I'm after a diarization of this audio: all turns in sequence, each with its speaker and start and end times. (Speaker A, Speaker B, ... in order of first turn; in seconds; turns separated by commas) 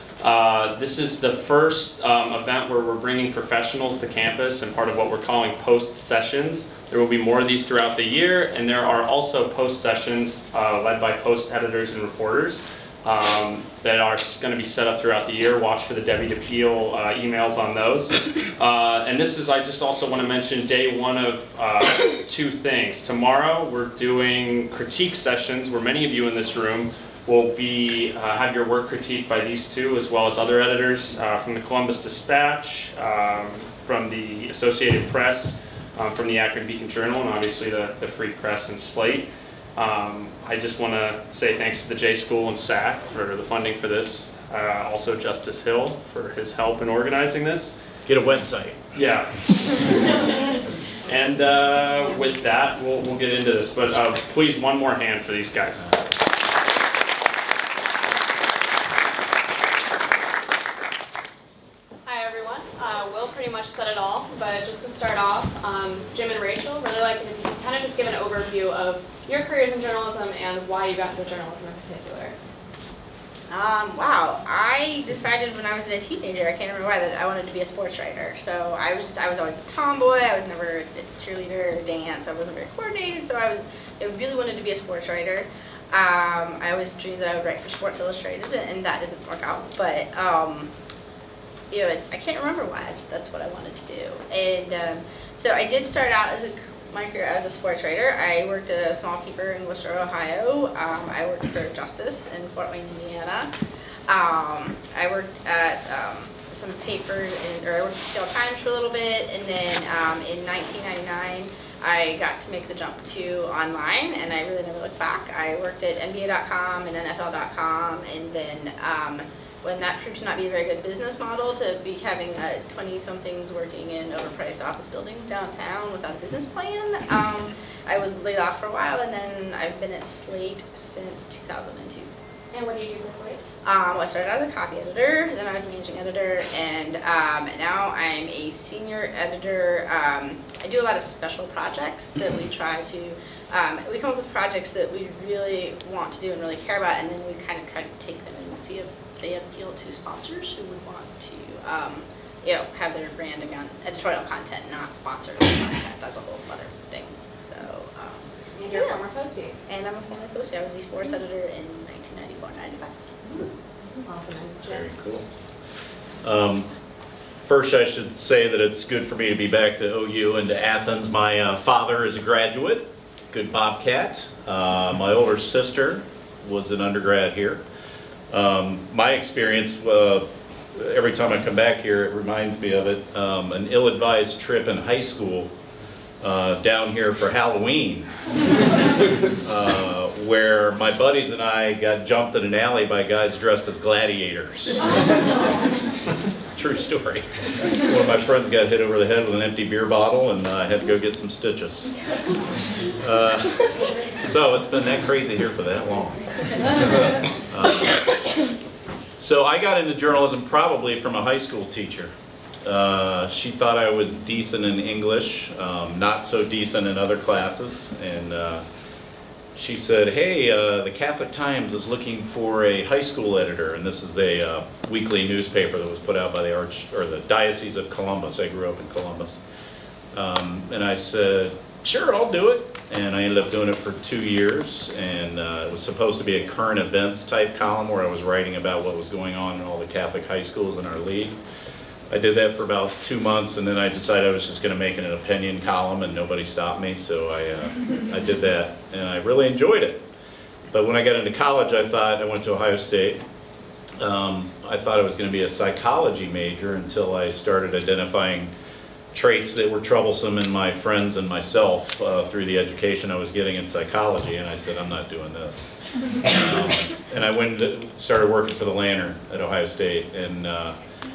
Speaker A: 0.2-47.7, Speaker B: 48.1-48.8, Speaker A: 49.0-50.5, Speaker A: 51.1-56.0, Speaker C: 62.1-72.9, Speaker D: 73.5-90.7, Speaker D: 91.7-103.5, Speaker D: 104.1-132.1, Speaker C: 132.5-133.4, Speaker D: 133.6-159.1, Speaker C: 158.6-159.6, Speaker D: 159.7-162.9, Speaker C: 164.0-164.9, Speaker B: 164.7-165.3, Speaker B: 166.2-166.7, Speaker B: 167.4-177.6, Speaker B: 178.3-185.5, Speaker B: 186.2-188.1, Speaker B: 189.4-194.8, Speaker B: 196.6-201.9, Speaker B: 202.9-208.1, Speaker B: 209.2-212.1, Speaker B: 212.6-218.7, Speaker B: 219.6-229.4, Speaker B: 230.1-241.3, Speaker B: 242.1-250.1, Speaker B: 250.7-253.2, Speaker B: 254.0-258.5, Speaker B: 259.1-270.8